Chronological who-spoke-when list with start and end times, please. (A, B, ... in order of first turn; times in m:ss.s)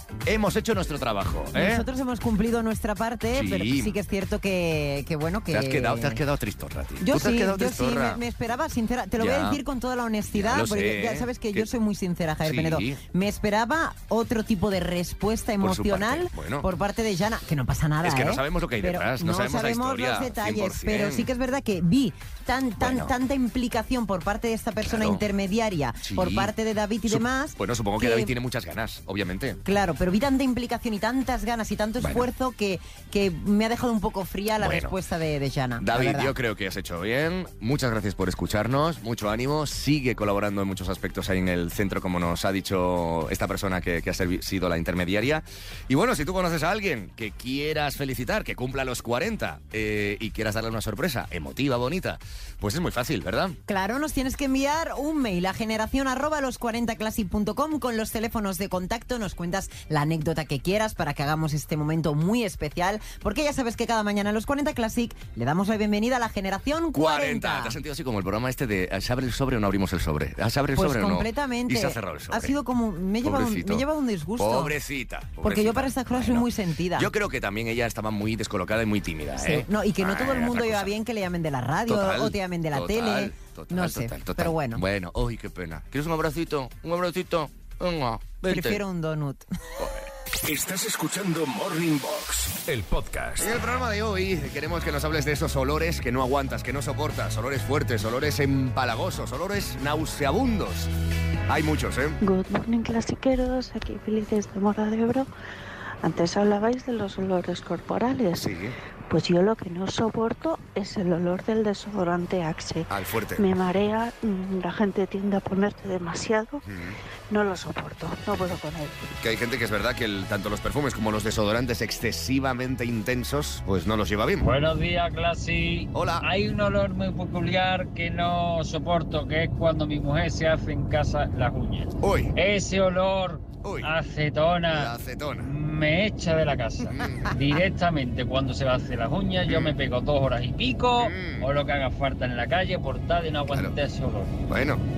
0:00.2-0:01.8 A
0:01.5-0:06.2 B
0:03.3-0:03.9 A
0:05.5-0:08.2 A
0:07.0-0:28.3 B
0:09.2-0:09.6 A
0:10.3-0:11.7 A
0:12.4-0:13.0 A
0:15.6-0:16.7 A
0:18.0-0:21.3 A
0:22.8-0:23.1 A
0:24.8-0:25.2 A
0:26.0-0:26.5 A
0:27.1-0:29.6 A
0:29.6-0:36.3 B
0:32.0-0:32.3 A
0:34.6-0:35.0 A
0:35.8-0:53.6 A
0:53.7-1:07.8 B
1:06.9-1:12.6 A
1:10.7-1:14.7 B
1:13.2-1:13.8 A
1:14.4-1:20.9 A
1:15.4-1:17.1 B
1:19.4-1:24.8 B
1:21.9-1:28.8 A
1:28.5-1:29.4 B
1:29.8-1:30.1 A
1:30.4-1:33.5 C
1:33.4-1:40.9 A
1:41.5-1:42.2 A
1:42.2-1:45.3 D
1:46.0-1:48.5 D
1:48.4-1:48.7 A
1:49.1-1:56.6 D
1:52.9-1:53.4 A
1:56.7-1:57.0 A
1:57.3-1:59.0 D
1:59.2-2:04.5 A
2:04.4-2:24.3 E
2:05.9-2:06.2 A
2:12.0-2:12.3 A
2:13.6-2:13.9 A
2:14.7-2:15.5 A
2:16.8-2:17.3 A
2:19.5-2:19.7 A
2:21.0-2:21.5 A
2:24.5-2:24.8 A